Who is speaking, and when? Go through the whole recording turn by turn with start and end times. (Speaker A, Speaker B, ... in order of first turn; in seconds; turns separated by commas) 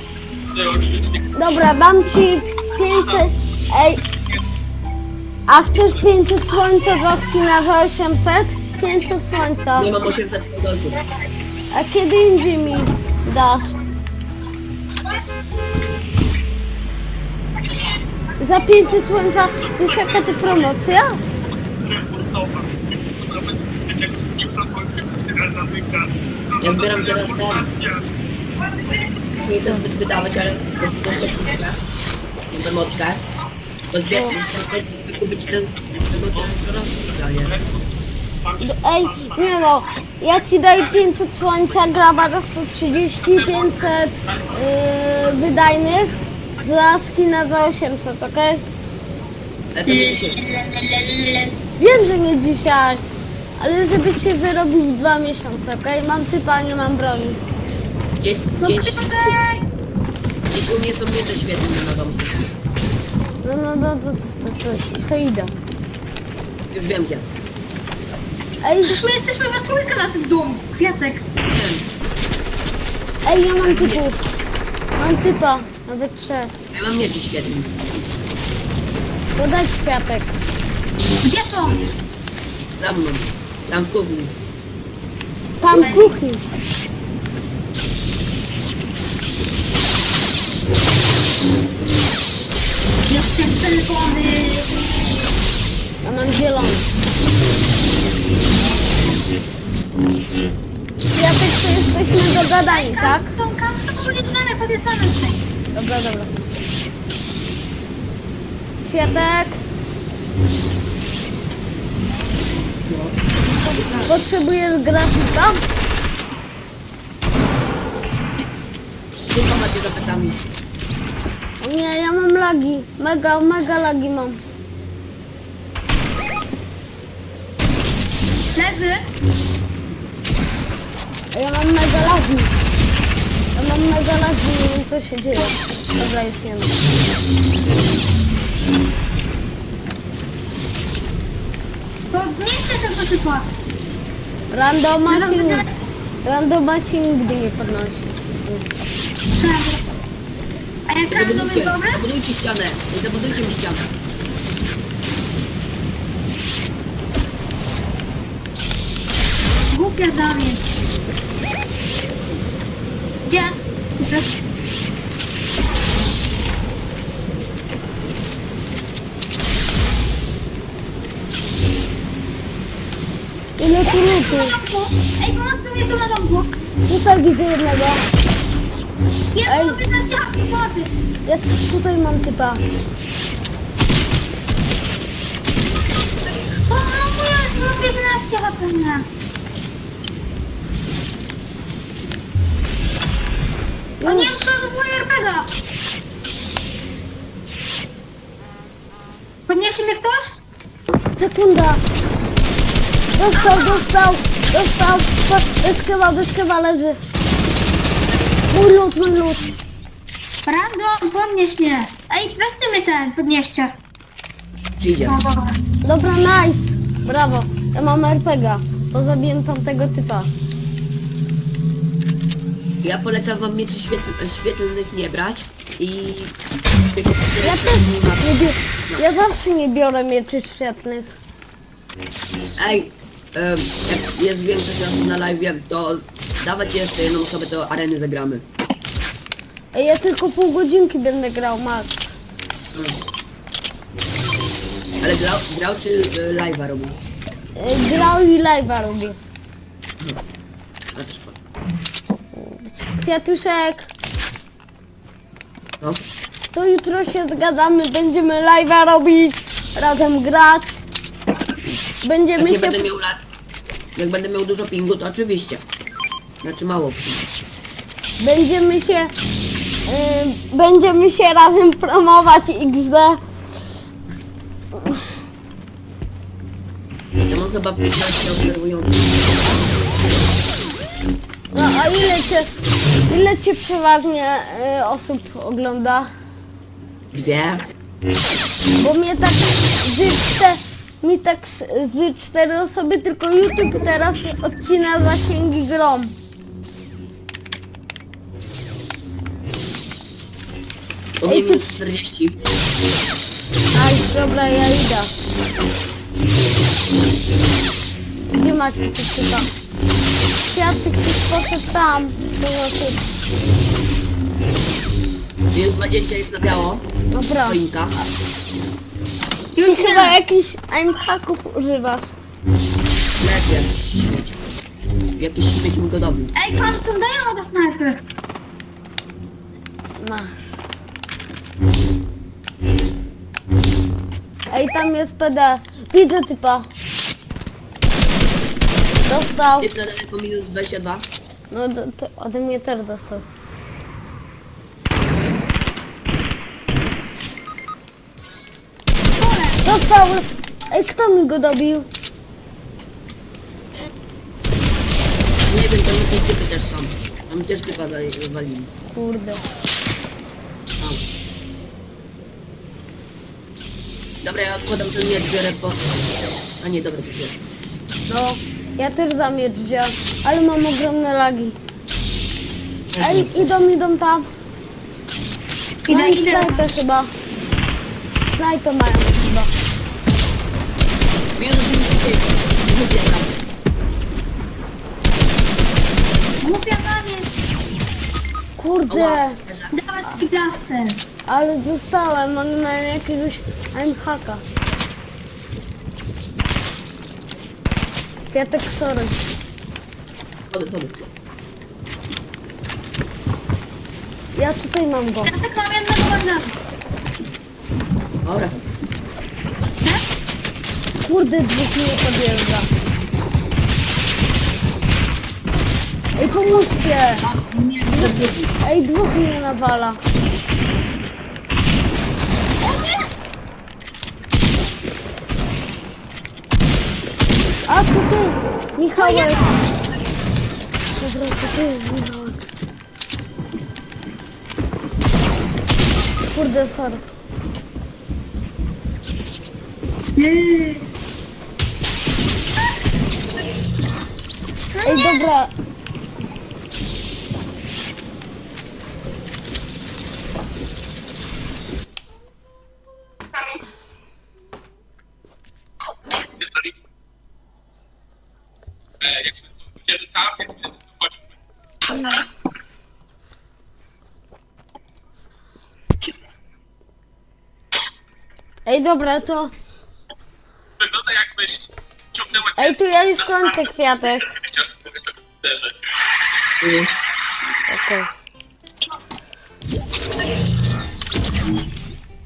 Speaker A: 0.5-1.3, Speaker B: 1.3-4.0, Speaker B: 5.5-9.9, Speaker C: 9.7-11.0, Speaker B: 11.7-13.8, Speaker B: 18.4-21.2, Speaker A: 21.8-28.0, Speaker C: 26.6-27.7, Speaker C: 29.4-31.8, Speaker C: 32.5-33.2, Speaker C: 33.9-37.6, Speaker B: 34.1-34.4, Speaker A: 38.5-39.3, Speaker B: 38.6-48.6, Speaker C: 49.7-50.4, Speaker D: 50.0-51.5, Speaker B: 51.8-53.0, Speaker B: 53.6-57.4, Speaker C: 58.2-59.3, Speaker D: 58.6-59.6, Speaker C: 60.5-62.4, Speaker B: 63.4-65.6, Speaker C: 66.7-67.3, Speaker B: 68.6-69.0, Speaker D: 68.8-71.2, Speaker C: 71.5-71.9, Speaker B: 73.2-74.2, Speaker C: 73.6-74.0, Speaker B: 75.0-76.5, Speaker C: 76.7-77.8, Speaker B: 79.3-80.3, Speaker D: 81.2-81.9, Speaker C: 82.8-84.3, Speaker B: 85.6-86.4, Speaker D: 85.7-86.1, Speaker D: 93.1-94.7, Speaker B: 96.0-96.9, Speaker B: 101.1-103.3, Speaker D: 102.6-105.4, Speaker B: 105.8-106.3, Speaker B: 108.8-109.6, Speaker C: 112.8-114.3, Speaker B: 114.0-115.6, Speaker C: 119.3-120.4, Speaker B: 121.6-124.4, Speaker D: 128.6-129.0, Speaker B: 131.3-132.5, Speaker B: 133.5-136.8, Speaker D: 142.1-143.5, Speaker B: 144.5-145.6, Speaker D: 145.1-145.7, Speaker B: 146.2-148.7, Speaker D: 149.3-149.8, Speaker D: 150.9-152.0, Speaker C: 151.1-153.9, Speaker D: 159.7-160.8, Speaker D: 163.2-164.3, Speaker B: 173.6-174.5, Speaker D: 173.8-176.5, Speaker B: 176.8-178.1, Speaker D: 179.3-180.9, Speaker B: 179.4-179.8, Speaker B: 181.2-182.6, Speaker D: 186.7-189.1, Speaker B: 194.0-194.3, Speaker D: 194.0-195.5, Speaker D: 199.5-200.4, Speaker B: 201.2-201.8, Speaker B: 203.2-207.0, Speaker D: 203.4-203.8, Speaker B: 208.5-209.5, Speaker D: 210.4-213.8, Speaker C: 214.8-215.2, Speaker D: 215.1-215.6, Speaker B: 215.8-220.3, Speaker C: 222.8-228.2, Speaker B: 227.4-231.2, Speaker C: 232.5-238.4, Speaker B: 239.7-242.0, Speaker C: 245.0-247.0, Speaker B: 247.6-249.2, Speaker C: 250.9-251.4, Speaker B: 252.3-253.9, Speaker B: 256.5-260.8, Speaker B: 262.0-262.9, Speaker C: 262.4-263.2, Speaker C: 263.9-265.6, Speaker C: 266.4-267.3, Speaker B: 268.2-269.1, Speaker B: 269.9-273.2, Speaker B: 274.8-275.0, Speaker C: 277.3-279.3, Speaker B: 281.5-282.6, Speaker B: 283.1-286.1, Speaker C: 287.1-287.6, Speaker B: 288.8-296.1, Speaker C: 301.2-302.4, Speaker B: 301.2-301.6, Speaker B: 303.7-305.1, Speaker B: 308.3-309.5, Speaker B: 310.5-313.0, Speaker C: 315.5-316.9, Speaker B: 317.1-317.6, Speaker C: 317.5-318.0, Speaker D: 319.6-320.2, Speaker B: 319.6-322.1, Speaker C: 323.2-324.4, Speaker C: 325.2-326.3, Speaker D: 326.3-328.0, Speaker B: 330.0-330.4, Speaker B: 334.5-336.7, Speaker B: 339.0-339.7, Speaker C: 339.6-341.1, Speaker B: 341.5-343.2, Speaker D: 349.2-349.6, Speaker B: 349.6-351.9, Speaker C: 355.5-358.7, Speaker B: 358.9-359.4, Speaker C: 364.2-366.0, Speaker C: 366.6-367.4, Speaker B: 368.1-371.6, Speaker C: 372.9-373.6, Speaker B: 373.0-374.3, Speaker D: 375.9-376.7, Speaker B: 375.9-377.1, Speaker B: 378.3-379.5, Speaker C: 381.3-383.4, Speaker D: 386.4-387.3, Speaker B: 388.6-389.4, Speaker C: 388.9-389.7, Speaker D: 389.7-391.0, Speaker B: 391.3-394.4, Speaker B: 398.3-399.2, Speaker C: 400.5-401.0, Speaker B: 404.3-405.3, Speaker D: 405.2-406.5, Speaker C: 408.2-408.6, Speaker B: 411.1-412.7, Speaker B: 416.2-417.2, Speaker C: 417.2-418.5, Speaker B: 417.9-420.0, Speaker B: 427.7-429.4, Speaker D: 429.0-429.6, Speaker B: 431.0-432.5, Speaker B: 436.3-437.1, Speaker D: 440.1-440.9, Speaker D: 444.7-445.1, Speaker B: 444.8-445.5, Speaker A: 456.3-456.7, Speaker A: 459.0-461.3, Speaker B: 468.6-469.5, Speaker A: 470.8-472.8, Speaker B: 472.6-474.3, Speaker A: 474.4-475.8, Speaker C: 476.6-476.9, Speaker B: 477.7-478.1